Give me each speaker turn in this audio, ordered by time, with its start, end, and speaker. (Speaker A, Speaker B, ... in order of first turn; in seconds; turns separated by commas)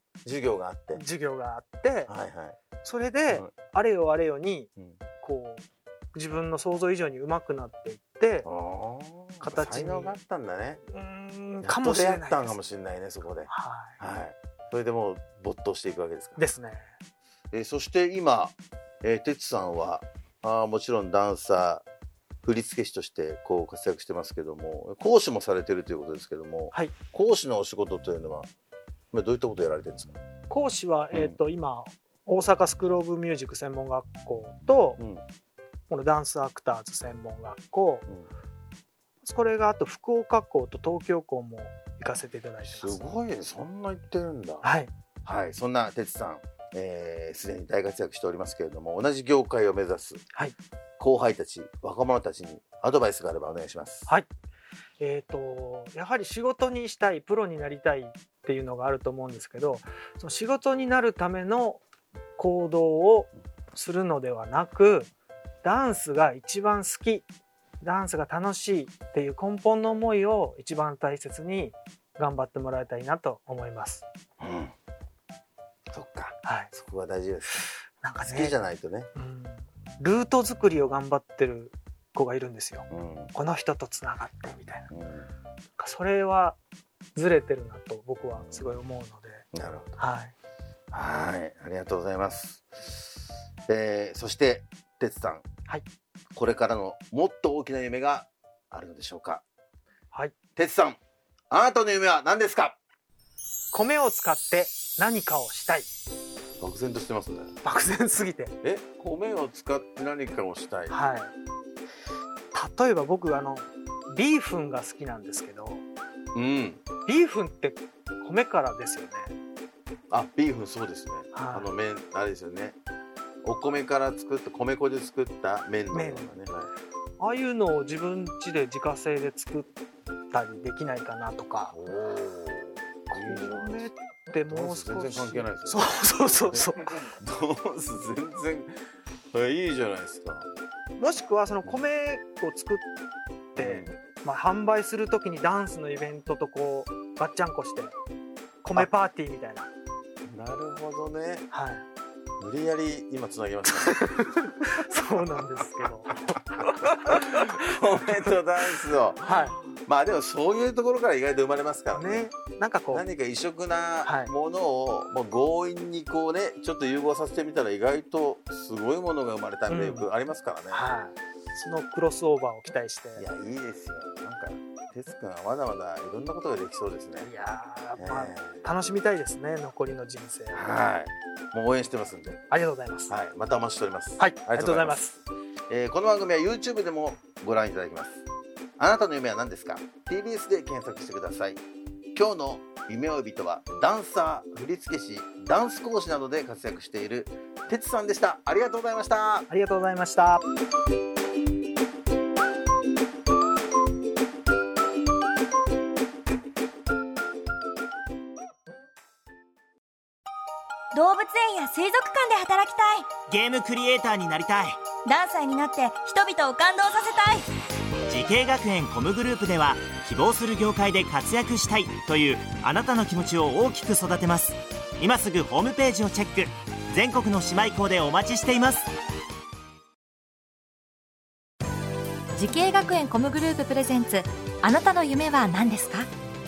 Speaker A: 0.2-1.0, Speaker B: 0.9-2.1, Speaker A: 2.1-2.6, Speaker B: 2.8-8.5, Speaker A: 8.4-10.8, Speaker B: 9.4-10.2, Speaker B: 10.9-12.6, Speaker A: 11.6-16.4, Speaker B: 13.5-14.0, Speaker B: 16.4-16.9, Speaker A: 17.5-21.9, Speaker A: 22.4-28.5, Speaker A: 29.1-30.2, Speaker B: 30.5-35.0, Speaker A: 35.0-35.2, Speaker B: 35.9-38.1, Speaker B: 39.2-43.1, Speaker A: 42.7-44.7, Speaker B: 44.6-44.9, Speaker A: 45.2-50.2, Speaker A: 51.0-54.1, Speaker B: 55.0-61.8, Speaker B: 62.4-65.1, Speaker B: 65.6-67.3, Speaker B: 67.8-74.0, Speaker A: 74.4-74.7, Speaker A: 75.9-77.7, Speaker B: 76.4-76.7, Speaker B: 78.0-78.6, Speaker A: 78.3-79.1, Speaker B: 79.2-84.9, Speaker A: 82.9-83.3, Speaker A: 84.9-85.3, Speaker B: 85.8-86.6, Speaker B: 87.2-89.5, Speaker A: 89.5-90.0, Speaker B: 90.0-90.3, Speaker A: 90.9-93.1, Speaker A: 93.7-95.5, Speaker A: 96.3-99.4, Speaker A: 100.6-101.0, Speaker A: 101.5-102.8, Speaker B: 103.7-105.9, Speaker A: 106.6-107.5, Speaker B: 107.6-108.6, Speaker A: 108.6-111.0, Speaker B: 110.9-111.3, Speaker B: 112.5-115.8, Speaker A: 116.3-116.8, Speaker B: 117.1-119.3, Speaker A: 120.1-122.8, Speaker B: 121.3-121.7, Speaker A: 123.4-126.7, Speaker B: 125.9-126.3, Speaker B: 127.2-129.7, Speaker B: 130.3-131.8, Speaker A: 131.7-133.9, Speaker B: 133.1-137.1, Speaker A: 134.5-135.9, Speaker A: 136.4-138.8, Speaker A: 139.3-140.5, Speaker B: 141.0-142.9, Speaker B: 143.6-147.9, Speaker A: 143.6-143.9, Speaker B: 148.6-149.7, Speaker A: 150.3-151.5, Speaker B: 151.5-151.8, Speaker A: 152.4-154.5, Speaker B: 153.8-158.2, Speaker A: 156.6-162.3, Speaker B: 159.2-159.6, Speaker B: 161.9-163.1, Speaker A: 162.9-170.9, Speaker B: 164.1-164.3, Speaker B: 169.7-170.1, Speaker B: 170.7-173.2, Speaker A: 173.2-177.3, Speaker B: 177.2-180.6, Speaker A: 178.0-178.6, Speaker A: 180.5-182.4, Speaker B: 182.5-183.1, Speaker A: 183.1-185.0, Speaker B: 184.2-185.2, Speaker A: 185.7-188.2, Speaker A: 188.8-191.6, Speaker A: 192.2-199.5, Speaker B: 199.5-200.4, Speaker C: 210.9-213.1, Speaker D: 213.2-214.8, Speaker C: 215.1-217.5, Speaker D: 218.1-228.9, Speaker E: 232.3-236.1